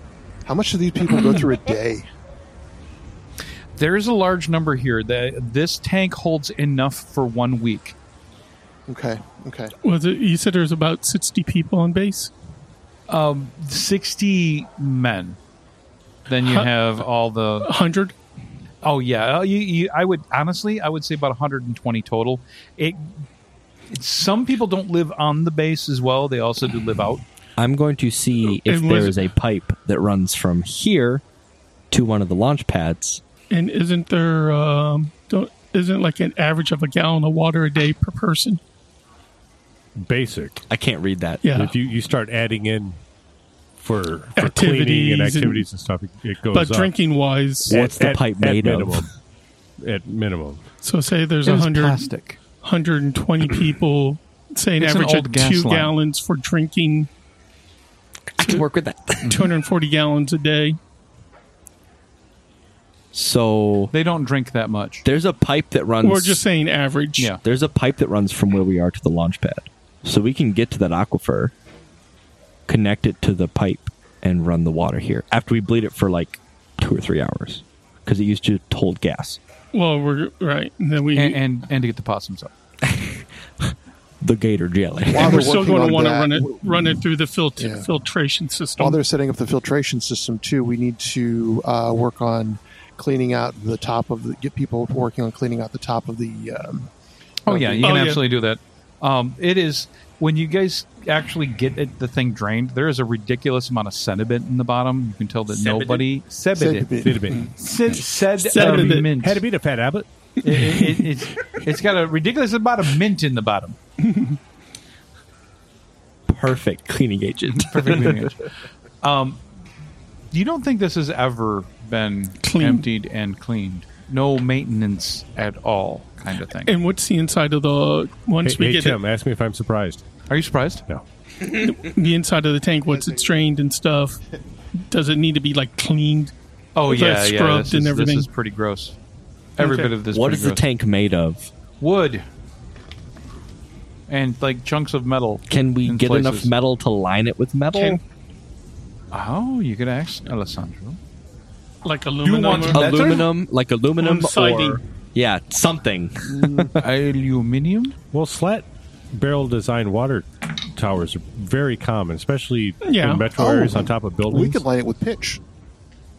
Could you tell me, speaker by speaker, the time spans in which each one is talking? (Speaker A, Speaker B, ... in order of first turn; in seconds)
Speaker A: 0.5-2.0, 8.9-9.7, 85.1-87.0, 87.6-87.9, 88.8-96.9, 97.5-98.1, 106.5-107.4, 132.9-133.3, 156.3-156.8, 163.3-165.4
Speaker B: 3.8-8.0, 13.1-15.4, 16.3-17.7, 18.8-23.1, 23.9-27.2, 51.5-52.4, 54.8-55.9, 63.9-65.0, 81.1-82.5, 97.5-109.4, 110.4-113.8, 117.5-118.4, 119.0-119.4, 120.3-126.7, 130.3-130.8, 136.8-139.0, 139.6-140.6, 141.8-142.2, 144.1-146.5, 149.1-151.0, 152.2-153.3, 156.8-158.0
Speaker C: 9.8-12.3, 16.4-16.7, 17.6-18.1, 28.6-29.2, 33.5-38.6, 41.4-41.7, 44.4-45.7, 46.5-47.7, 50.8-52.1, 52.6-57.1, 59.3-60.8, 66.0-67.3, 79.7-81.4, 85.2-89.0, 97.8-98.2, 108.4-109.1, 110.5-110.9, 114.0-114.4, 122.4-122.9, 126.6-129.0, 131.4-134.2, 134.9-136.3, 136.9-138.3, 139.6-139.9, 147.7-148.0, 151.8-152.9, 154.0-154.8, 162.8-163.3
Speaker D: 27.6-31.2, 31.9-33.2, 40.7-41.4, 47.7-49.0, 58.4-59.4, 63.1-63.9, 65.0-66.4, 67.4-71.5, 72.7-79.4, 82.8-85.6, 105.5-106.0, 116.3-118.3, 140.1-141.5, 145.5-148.0, 152.7-156.8
Speaker E: 40.0-40.6, 41.5-43.0, 43.8-46.9, 47.7-49.1, 49.8-50.6, 107.0-107.5, 108.6-110.1, 128.4-130.0, 158.1-164.6